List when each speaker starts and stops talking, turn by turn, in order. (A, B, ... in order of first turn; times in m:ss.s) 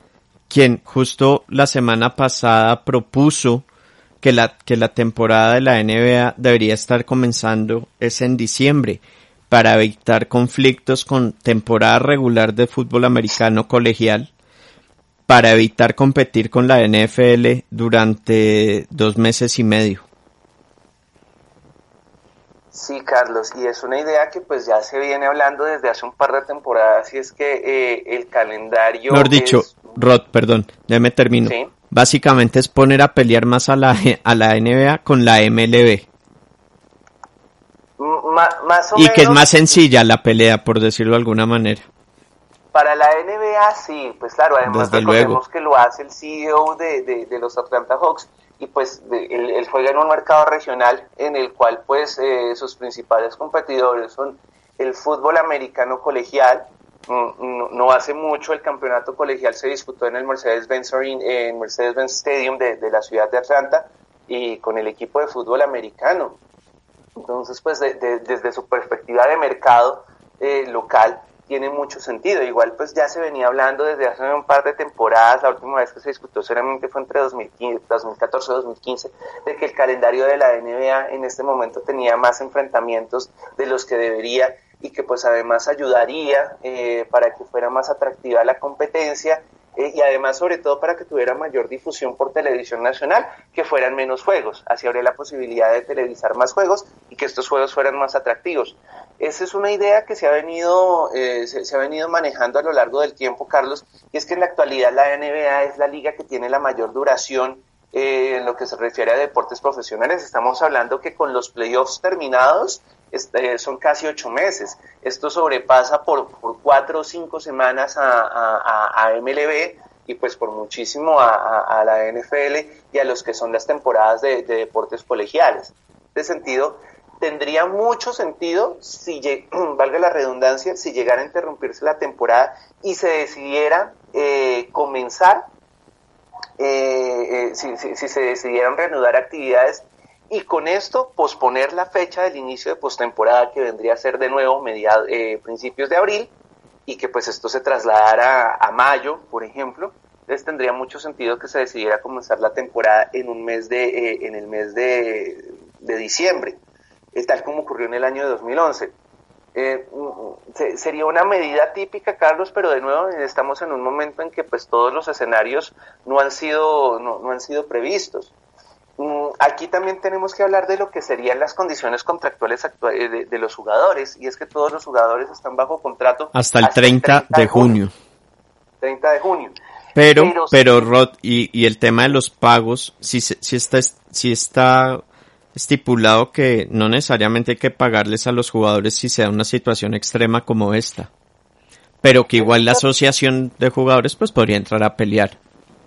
0:00.5-0:03.6 A
0:04.2-0:14.3 A
0:15.3-0:20.0 A
0:22.7-0:30.0 B
0:29.1-0:36.1 A
0:31.4-0:31.7 B
0:38.0-0:39.6 B
0:39.0-0:41.8 A
0:42.7-1:06.4 B
0:44.6-0:45.4 A
1:07.2-2:15.5 B
2:16.6-2:26.3 B
2:26.9-2:36.6 B
2:37.1-2:38.9 B
2:39.6-2:48.3 B
2:49.0-2:57.8 B
2:56.3-2:57.9 A
2:58.8-2:59.6 B
3:00.0-3:05.0 A
3:00.1-3:00.9 B
3:05.6-3:11.1 A
3:12.0-3:15.4 A
3:12.4-3:12.8 B